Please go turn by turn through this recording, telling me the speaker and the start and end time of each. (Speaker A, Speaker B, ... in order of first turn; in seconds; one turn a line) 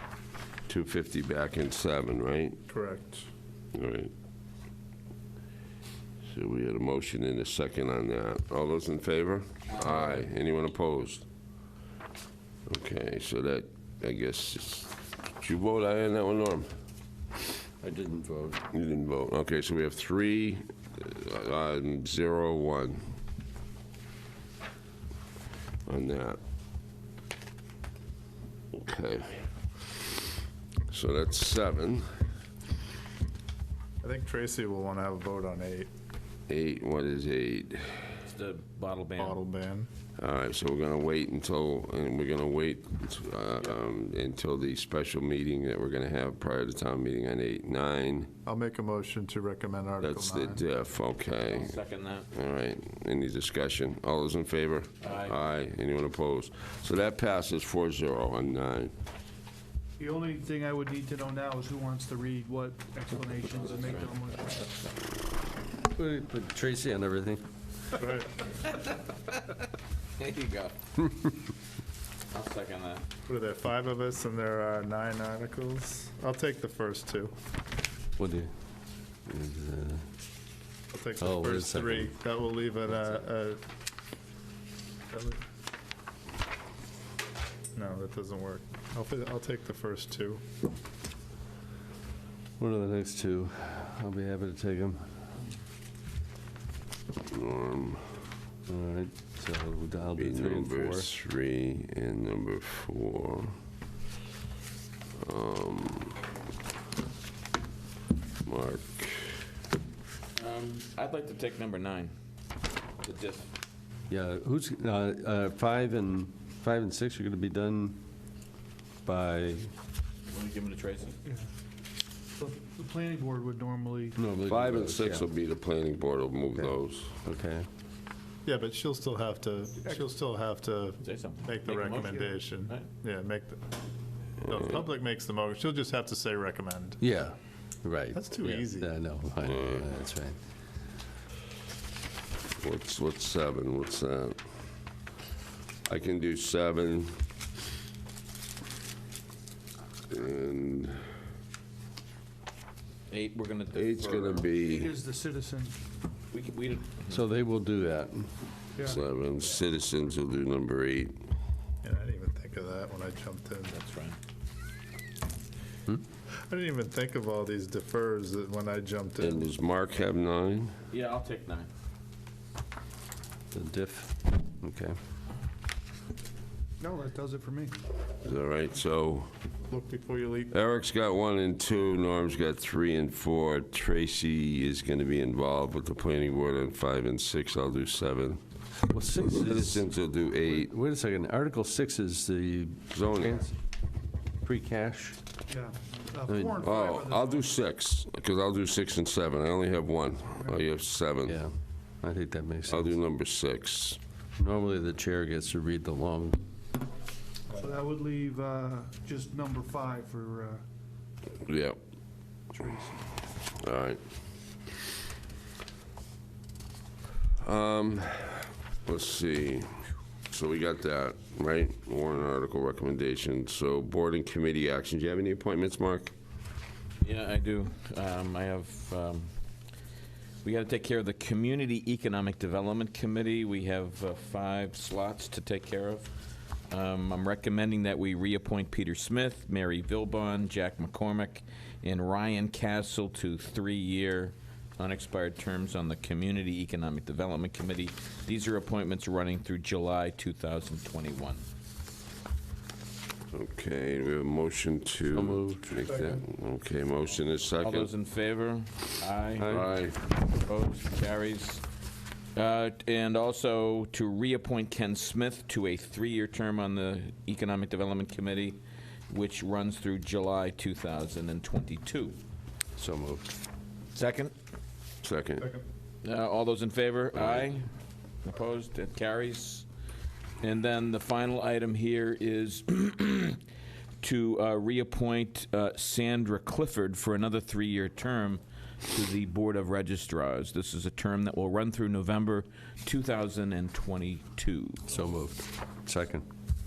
Speaker A: 0.7-2.6
Speaker B: 2.7-3.2
Speaker A: 3.7-4.1
Speaker A: 6.2-11.2
Speaker C: 9.7-10.2
Speaker A: 12.7-16.7
Speaker D: 17.8-18.6
Speaker A: 18.7-23.0
Speaker A: 25.9-26.4
Speaker A: 28.7-29.5
Speaker A: 30.9-32.2
Speaker B: 34.0-35.9
Speaker A: 36.5-38.2
Speaker C: 38.2-39.4
Speaker B: 39.2-39.9
Speaker A: 40.2-48.3
Speaker B: 48.4-50.6
Speaker A: 50.0-51.8
Speaker C: 51.5-52.3
Speaker A: 52.3-58.9
Speaker C: 55.0-55.3
Speaker E: 60.0-64.7
Speaker C: 63.6-64.1
Speaker D: 65.8-67.4
Speaker B: 68.0-68.3
Speaker C: 70.2-70.7
Speaker C: 72.3-73.0
Speaker B: 73.2-77.3
Speaker D: 78.2-78.5
Speaker D: 79.3-80.0
Speaker B: 80.9-83.6
Speaker D: 81.2-82.1
Speaker B: 85.1-85.4
Speaker B: 87.7-90.4
Speaker D: 92.6-95.0
Speaker A: 97.3-98.1
Speaker D: 98.7-101.1
Speaker A: 100.2-103.5
Speaker A: 105.2-106.2
Speaker A: 108.4-109.4
Speaker C: 110.3-112.1
Speaker C: 113.0-113.5
Speaker D: 114.1-118.0
Speaker D: 119.0-119.7
Speaker C: 120.3-121.2
Speaker E: 122.4-124.2
Speaker D: 124.2-125.3
Speaker A: 124.5-127.2
Speaker D: 127.2-127.7
Speaker B: 128.4-133.6
Speaker C: 131.0-132.8
Speaker E: 131.9-132.4
Speaker A: 134.4-134.8
Speaker B: 134.5-137.0
Speaker D: 137.0-140.4
Speaker B: 138.1-138.9
Speaker A: 139.5-139.8
Speaker A: 142.6-144.4
Speaker A: 145.9-147.2
Speaker A: 150.1-151.0
Speaker C: 153.1-154.5
Speaker A: 153.7-154.9
Speaker E: 154.6-155.8
Speaker C: 156.3-157.2
Speaker D: 157.1-158.3
Speaker A: 158.8-161.2
Speaker B: 161.8-163.7
Speaker C: 163.7-164.2
Speaker B: 166.5-169.5
Speaker A: 169.2-170.7
Speaker C: 170.9-171.7
Speaker D: 173.5-174.9
Speaker E: 176.8-177.8
Speaker A: 178.2-179.3
Speaker B: 179.7-180.5
Speaker A: 180.5-188.4
Speaker D: 188.9-189.8
Speaker A: 189.4-190.7
Speaker D: 190.5-193.5
Speaker A: 192.9-193.5
Speaker D: 194.4-195.2
Speaker E: 195.5-197.5
Speaker D: 196.3-196.6
Speaker A: 196.6-201.4
Speaker E: 200.3-200.6
Speaker D: 201.3-202.9
Speaker A: 202.7-204.0
Speaker D: 204.4-206.4
Speaker E: 207.5-210.6
Speaker A: 211.4-211.8
Speaker A: 213.6-214.0
Speaker A: 217.4-226.1
Speaker C: 227.0-229.3
Speaker C: 230.4-236.1
Speaker C: 236.7-251.4
Speaker A: 253.3-257.9
Speaker D: 255.1-256.2
Speaker C: 257.6-259.6
Speaker D: 259.4-259.7
Speaker A: 259.5-260.0
Speaker C: 260.3-261.6
Speaker C: 262.3-272.2
Speaker D: 272.8-273.3
Speaker C: 273.9-274.3
Speaker A: 275.0-275.5
Speaker C: 276.0-277.7
Speaker A: 277.1-277.5
Speaker C: 278.2-279.6
Speaker C: 280.4-283.4
Speaker C: 284.0-294.9
Speaker D: 294.9-296.2